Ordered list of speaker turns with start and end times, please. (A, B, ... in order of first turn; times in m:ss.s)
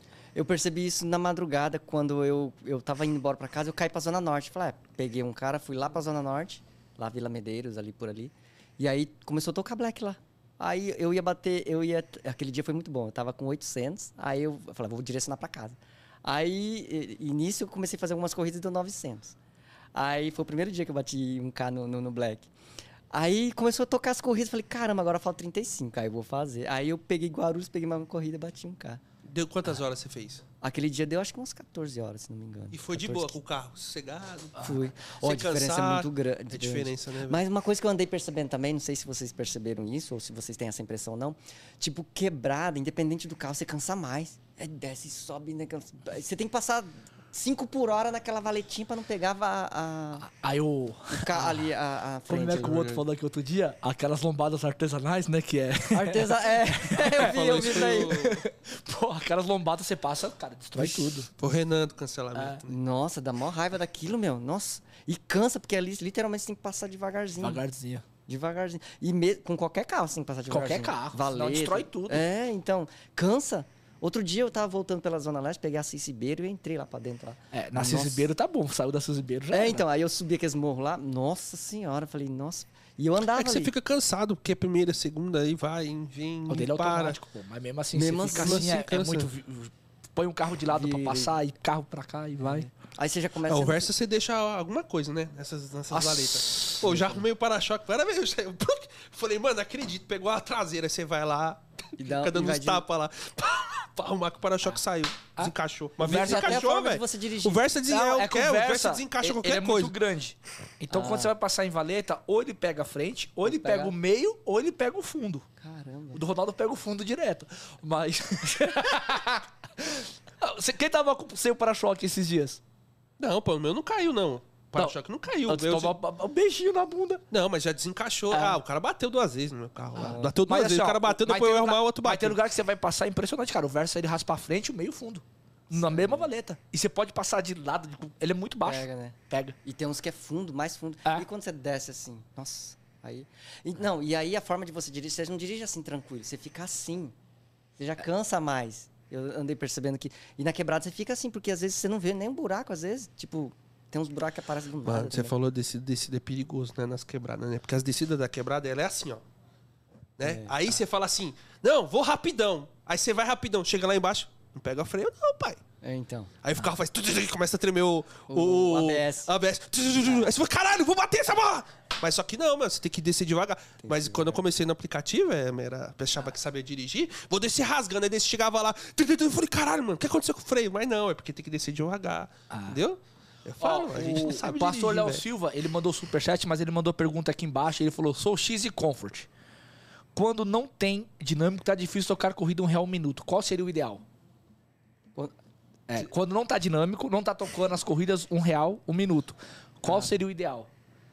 0:00.4-0:19.4 A
0:19.9-0:22.5 A
0:23.1-0:29.0 A
0:29.2-0:30.4 B
0:30.6-0:33.4 A
0:32.7-0:37.4 B
0:34.6-0:50.3 A
0:50.2-0:51.7 C
0:51.1-0:52.8 A
0:52.3-1:01.3 C
0:52.6-0:53.0 B
0:55.9-0:58.3 A
0:57.0-0:58.4 B
1:01.4-1:02.8 B
1:02.3-1:02.6 C
1:02.7-1:07.6 A
1:07.4-1:08.0 C
1:08.3-1:18.3 A
1:10.5-1:12.2 C
1:17.5-1:19.8 C
1:19.5-1:23.7 A
1:23.3-1:27.2 B
1:26.5-1:32.7 C
1:27.9-1:28.7 A
1:28.3-1:29.3 B
1:30.7-1:31.4 A
1:32.4-1:33.9 A
1:33.5-1:50.0 B
1:35.9-1:36.9 C
1:42.0-1:42.8 A
1:45.4-1:46.6 C
1:46.0-1:47.6 A
1:47.9-1:55.5 C
1:50.9-1:51.3 A
1:53.4-1:53.9 A
1:55.6-1:56.2 A
1:56.1-2:02.6 C
2:03.2-2:05.9 B
2:04.8-2:07.2 C
2:07.3-2:12.4 B
2:08.3-2:08.6 C
2:10.0-2:19.6 C
2:10.0-2:10.4 A
2:15.7-2:16.3 A
2:18.6-2:27.2 A
2:27.8-2:35.4 A
2:34.8-2:39.2 B
2:40.2-2:45.6 B
2:40.2-2:40.6 A
2:45.8-2:46.3 A
2:46.4-3:05.2 B
2:48.3-2:49.3 A
2:50.0-2:50.3 A
2:53.8-2:54.4 A
3:02.5-3:02.8 C
3:03.6-3:09.3 C
3:10.2-3:14.0 C
3:15.9-3:20.7 C